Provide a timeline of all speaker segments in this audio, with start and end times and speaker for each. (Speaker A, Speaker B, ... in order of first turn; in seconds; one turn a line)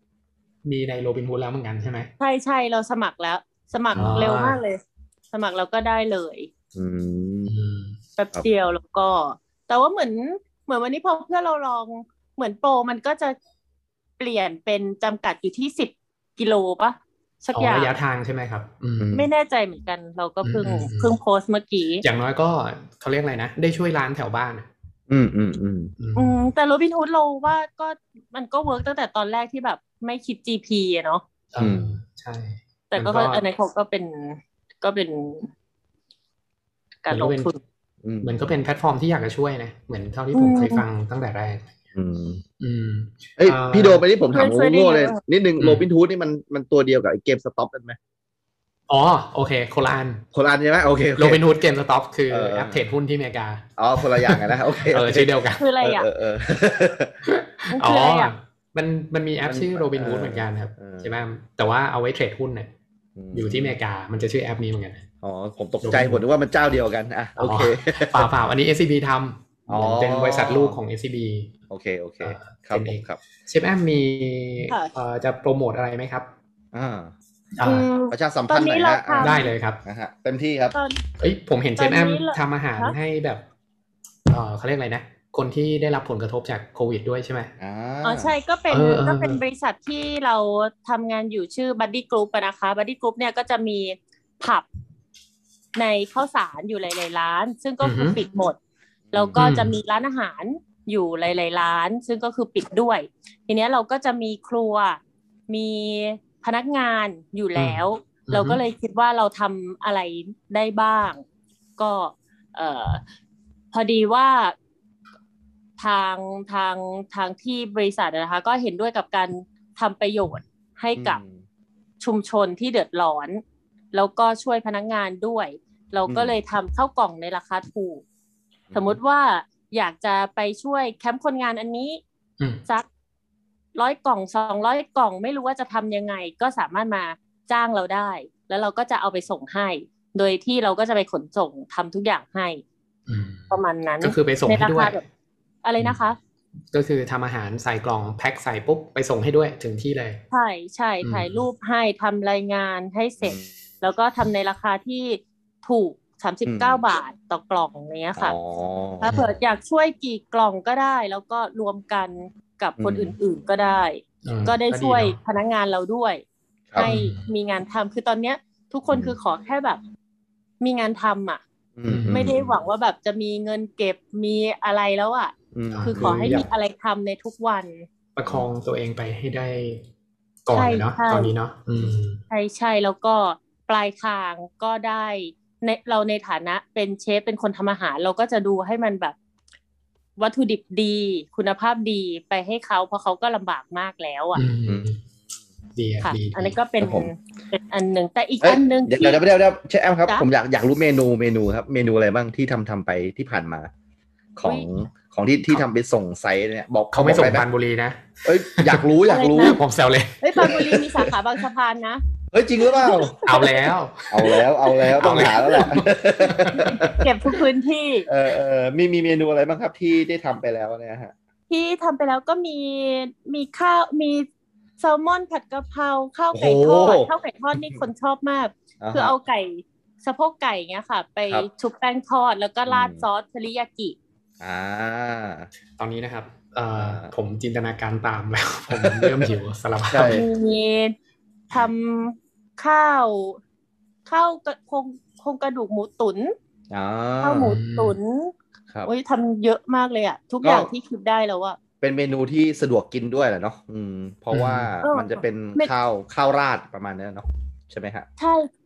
Speaker A: 0.7-2.1
Speaker B: 2.2-4.8
Speaker A: 3.9-4.6
Speaker C: 4.0-4.2
Speaker B: 5.3-6.5
Speaker C: 6.8-7.5
Speaker A: 7.5-8.0
Speaker B: 8.2-13.4
Speaker B: 14.2-17.9
Speaker A: 17.6-19.1
Speaker C: 19.0-19.3
Speaker B: 19.1-22.1
Speaker A: 20.4-21.2
Speaker A: 22.0-24.7
Speaker C: 25.1-25.9
Speaker A: 26.0-26.4
Speaker B: 26.2-31.2
Speaker A: 31.5-33.4
Speaker C: 31.6-31.9
Speaker B: 32.9-35.5
Speaker B: 37.0-37.6
Speaker A: 37.1-37.5
Speaker C: 38.0-38.5
Speaker A: 38.2-41.8
Speaker B: 40.4-40.9
Speaker C: 42.0-42.4
Speaker A: 42.6-44.0
Speaker C: 43.4-48.0
Speaker B: 44.3-45.2
Speaker A: 45.6-45.9
Speaker A: 48.9-50.2
Speaker C: 50.3-51.4
Speaker A: 51.2-55.6
Speaker C: 52.3-52.8
Speaker C: 53.8-57.2
Speaker B: 55.6-56.1
Speaker A: 57.2-62.7
Speaker B: 57.7-58.3
Speaker C: 59.4-61.1
Speaker C: 63.2-63.8
Speaker A: 63.3-65.0
Speaker C: 65.2-68.3
Speaker A: 65.8-66.2
Speaker A: 67.4-71.5
Speaker C: 69.7-70.8
Speaker C: 71.7-73.2
Speaker A: 72.2-76.3
Speaker C: 76.7-77.1
Speaker A: 77.6-77.9
Speaker B: 77.6-79.5
Speaker C: 78.1-80.8
Speaker A: 79.2-79.8
Speaker B: 80.7-81.0
Speaker A: 81.2-83.4
Speaker B: 81.8-82.9
Speaker A: 84.3-87.5
Speaker C: 87.6-88.3
Speaker B: 88.0-94.7
Speaker A: 88.7-89.4
Speaker B: 95.8-98.6
Speaker A: 97.8-98.2
Speaker C: 99.1-99.4
Speaker B: 99.1-111.2
Speaker A: 99.4-99.8
Speaker A: 107.6-108.6
Speaker B: 111.8-113.0
Speaker B: 113.7-114.5
Speaker B: 115.8-121.2
Speaker C: 121.0-121.4
Speaker B: 122.0-123.4
Speaker B: 123.9-128.0
Speaker C: 126.1-126.4
Speaker C: 128.7-129.0
Speaker B: 128.7-132.0
Speaker B: 133.8-142.6
Speaker A: 143.1-145.0
Speaker B: 143.5-145.0
Speaker B: 145.6-146.2
Speaker A: 146.7-150.2
Speaker B: 150.3-158.4
Speaker A: 151.0-151.5
Speaker C: 153.2-153.5
Speaker C: 156.4-156.8
Speaker C: 158.2-159.1
Speaker B: 159.0-166.2
Speaker C: 162.8-163.2
Speaker A: 164.2-165.2
Speaker B: 166.8-169.8
Speaker A: 166.8-167.3
Speaker C: 168.9-169.2
Speaker B: 170.6-171.4
Speaker C: 171.8-172.6
Speaker A: 171.9-172.4
Speaker B: 172.1-175.3
Speaker C: 175.5-176.4
Speaker A: 175.7-176.5
Speaker B: 175.8-177.9
Speaker A: 178.2-179.8
Speaker A: 180.5-182.2
Speaker B: 180.5-181.3
Speaker B: 182.3-189.2
Speaker B: 190.2-194.4
Speaker A: 194.3-195.0
Speaker C: 194.7-194.9
Speaker A: 195.8-196.6
Speaker B: 196.0-199.2
Speaker C: 196.8-197.1
Speaker C: 198.4-203.7
Speaker C: 204.4-207.5
Speaker A: 206.9-208.8
Speaker C: 208.2-209.6
Speaker B: 209.1-209.6
Speaker A: 209.4-210.7
Speaker B: 210.2-212.0
Speaker C: 210.4-210.9
Speaker C: 212.3-213.2
Speaker B: 212.7-213.6
Speaker A: 213.2-216.9
Speaker C: 214.1-217.1
Speaker B: 214.8-215.7
Speaker B: 216.9-218.1
Speaker C: 218.1-221.1
Speaker B: 221.5-224.3
Speaker B: 224.8-234.0
Speaker C: 226.3-227.8
Speaker C: 228.8-229.1
Speaker C: 232.7-233.1
Speaker C: 234.4-235.5
Speaker A: 235.8-240.2
Speaker C: 236.8-237.1
Speaker C: 238.7-239.3
Speaker C: 239.9-240.3
Speaker B: 240.1-240.9
Speaker B: 241.5-243.4
Speaker B: 244.1-246.3
Speaker C: 246.7-247.6
Speaker B: 247.2-248.3
Speaker A: 247.4-248.0
Speaker B: 248.8-251.6
Speaker C: 250.4-250.7
Speaker C: 251.8-258.1
Speaker A: 254.3-254.7
Speaker B: 254.8-255.7
Speaker B: 258.2-258.5